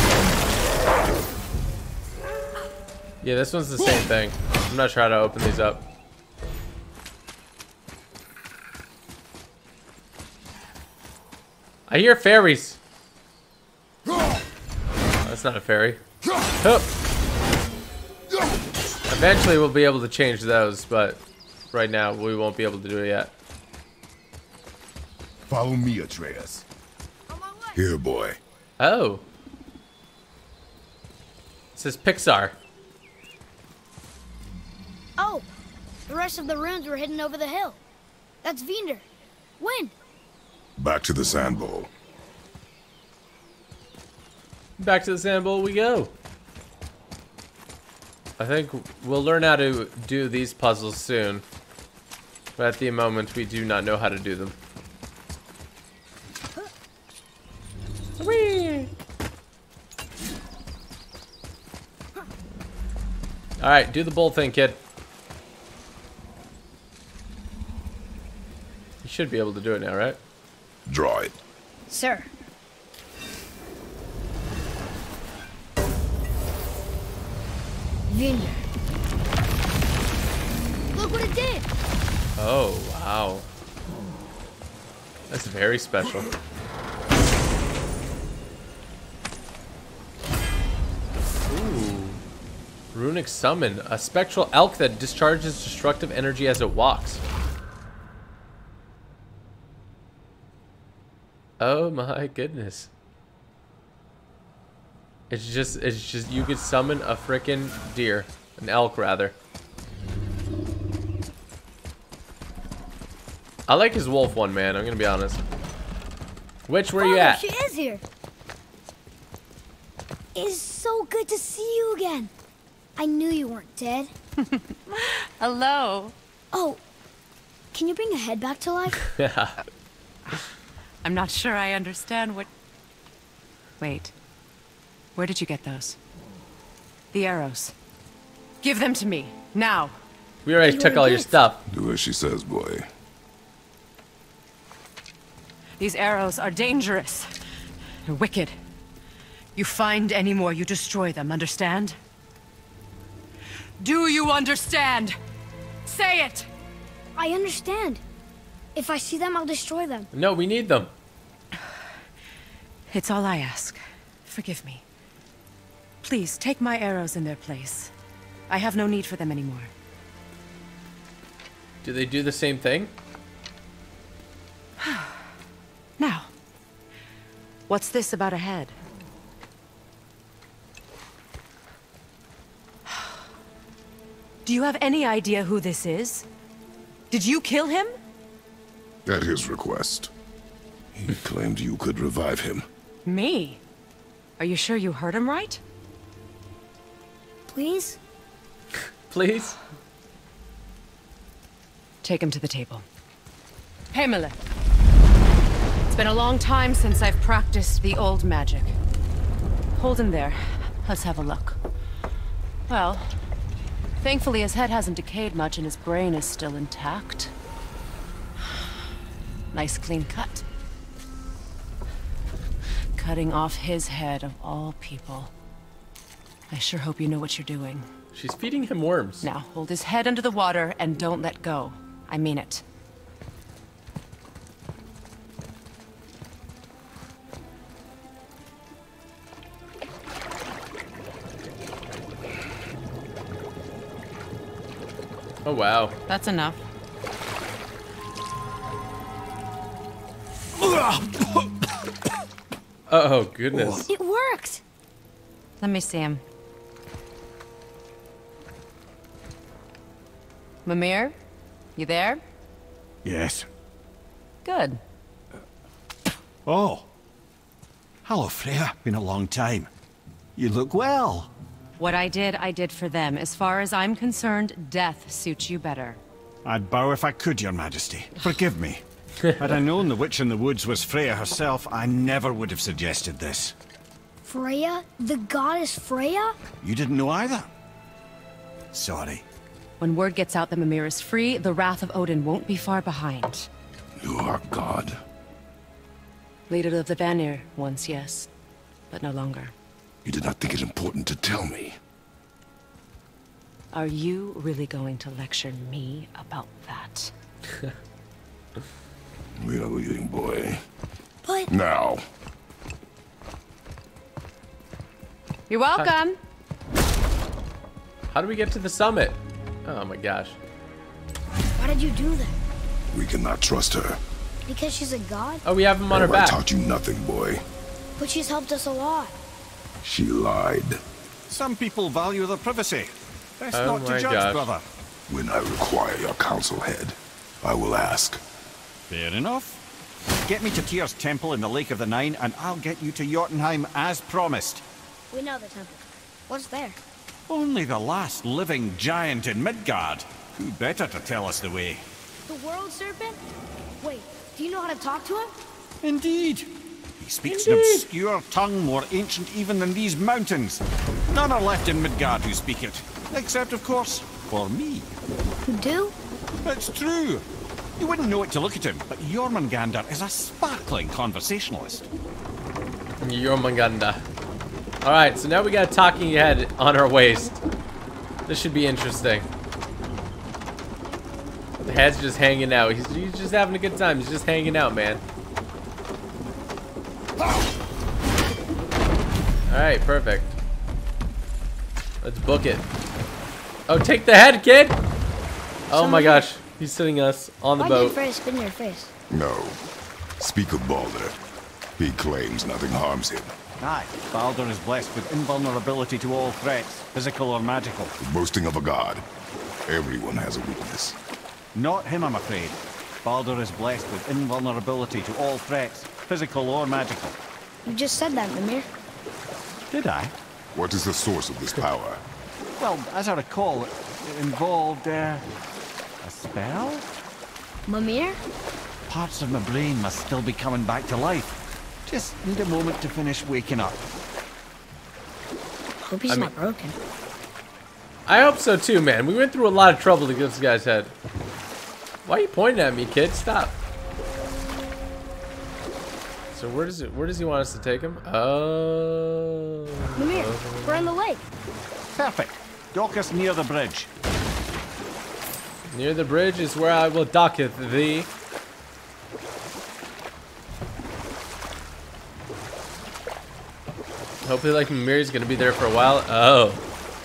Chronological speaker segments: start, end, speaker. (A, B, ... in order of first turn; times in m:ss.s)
0:03.2-0:05.8 A
0:11.9-0:12.8 A
0:15.2-0:16.0 A
0:16.6-0:16.9 A
0:19.1-0:21.2 A
0:21.7-0:23.3 A
0:25.5-0:26.6 B
0:27.3-0:27.8 C
0:27.7-0:28.4 B
0:28.8-0:29.2 A
0:31.8-0:32.5 A
0:35.2-0:35.5 C
0:36.1-0:37.8 C
0:38.4-0:39.0 C
0:39.6-0:39.9 C
0:40.8-0:41.9 B
0:44.8-0:46.1 A
0:48.4-0:51.4 A
0:52.6-0:54.6 A
0:58.2-0:58.9 A
1:03.6-1:04.8 A
1:09.0-1:10.2 A
1:10.9-1:11.4 B
1:11.9-1:12.3 C
1:18.1-1:18.7 C
1:20.9-1:21.7 C
1:22.4-1:23.4 A
1:25.3-1:26.3 A
1:31.5-1:32.2 A
1:32.9-1:37.2 A
1:41.6-1:42.9 A
1:45.3-1:49.3 A
1:53.7-1:55.4 A
1:56.7-1:57.4 A
1:57.0-1:58.0 C
2:00.3-2:02.3 C
2:03.0-2:04.1 C
2:04.4-2:06.1 D
2:06.5-2:06.8 C
2:07.7-2:09.1 C
2:09.2-2:09.6 A
2:11.0-2:12.5 D
2:13.8-2:14.1 D
2:15.1-2:16.0 D
2:17.1-2:17.7 D
2:18.6-2:19.9 D
2:20.4-2:21.6 A
2:20.6-2:21.3 C
2:21.7-2:22.8 B
2:25.8-2:27.3 D
2:28.0-2:28.5 D
2:29.5-2:32.0 D
2:33.8-2:35.2 D
2:35.8-2:36.5 D
2:37.2-2:38.0 C
2:38.7-2:40.1 C
2:40.1-2:40.9 A
2:42.9-2:44.8 D
2:46.0-2:47.9 D
2:48.5-2:49.7 D
2:51.8-2:52.9 A
2:54.8-2:55.2 D
2:56.0-2:56.3 D
2:57.7-2:58.8 D
3:02.9-3:03.2 D
3:04.4-3:06.2 D
3:07.1-3:07.9 D
3:09.0-3:10.1 B
3:10.9-3:12.6 B
3:13.0-3:13.6 D
3:14.4-3:15.6 D
3:17.5-3:18.0 C
3:19.1-3:19.6 A
3:22.0-3:22.8 D
3:23.9-3:24.4 D
3:25.9-3:28.8 D
3:29.7-3:31.6 D
3:32.7-3:33.1 D
3:34.0-3:37.3 D
3:39.5-3:40.4 D
3:43.0-3:45.3 D
3:46.5-3:47.9 D
3:48.1-3:49.2 A
3:49.2-3:52.6 D
4:05.4-4:06.0 A
4:06.1-4:06.6 D
4:10.7-4:11.4 E
4:12.9-4:13.8 A
4:13.9-4:14.6 C
4:15.6-4:16.2 D
4:20.6-4:21.1 D
4:21.8-4:22.2 D
4:23.0-4:23.5 E
4:24.4-4:24.8 D
4:26.4-4:26.9 E
4:28.0-4:29.7 E
4:30.4-4:31.3 E
4:31.8-4:36.0 D
4:36.4-4:38.8 E
4:39.4-4:43.5 E
4:44.2-4:46.4 C
4:46.6-4:47.5 E
4:48.7-4:49.2 E
4:49.8-4:53.5 D
4:54.0-4:55.0 B
4:56.5-4:58.3 D
4:58.9-4:59.5 D
5:00.0-5:01.8 B
5:03.7-5:07.1 D
5:09.4-5:10.6 B
5:11.2-5:11.5 C
5:11.5-5:12.0 B
5:15.5-5:16.2 D
5:18.1-5:20.4 A
5:21.6-5:22.4 C
5:22.9-5:24.0 B
5:24.5-5:25.4 C
5:25.4-5:26.4 A
5:25.9-5:27.4 B
5:28.0-5:29.1 C
5:29.8-5:30.8 B
5:31.3-5:34.6 E
5:33.5-5:34.4 A
5:35.1-5:38.2 B
5:38.9-5:39.6 E
5:40.2-5:44.6 E
5:45.1-5:46.8 C
5:47.3-5:51.8 E
5:52.3-5:53.2 C
5:53.8-5:55.3 C
5:55.8-6:04.9 E
5:57.3-5:57.8 A
6:05.4-6:05.9 C
6:06.4-6:07.2 E
6:07.8-6:11.8 E
6:13.0-6:14.0 A
6:14.8-6:17.4 A
6:18.3-6:19.3 A
6:21.6-6:25.0 A
6:29.5-6:30.4 A
6:32.0-6:32.6 A
6:33.7-6:34.8 A
6:35.7-6:38.0 A
6:35.7-6:36.2 C
6:37.6-6:38.9 C
6:39.1-6:39.6 B
6:40.2-6:41.2 B
6:41.8-6:43.3 B
6:43.6-6:47.9 E
6:48.0-6:49.0 B
6:49.7-6:51.0 B
6:51.5-6:57.2 E
6:57.6-6:58.7 C
6:59.7-7:00.1 E
7:00.5-7:02.0 B
7:02.6-7:05.2 E
7:06.0-7:06.9 E
7:07.7-7:08.2 C
7:08.9-7:13.8 E
7:15.8-7:16.8 C
7:18.1-7:20.9 A
7:22.0-7:23.6 A
7:26.3-7:30.9 A
7:30.0-7:31.2 C
7:31.9-7:33.9 E
7:35.7-7:38.1 A
7:44.2-7:46.6 A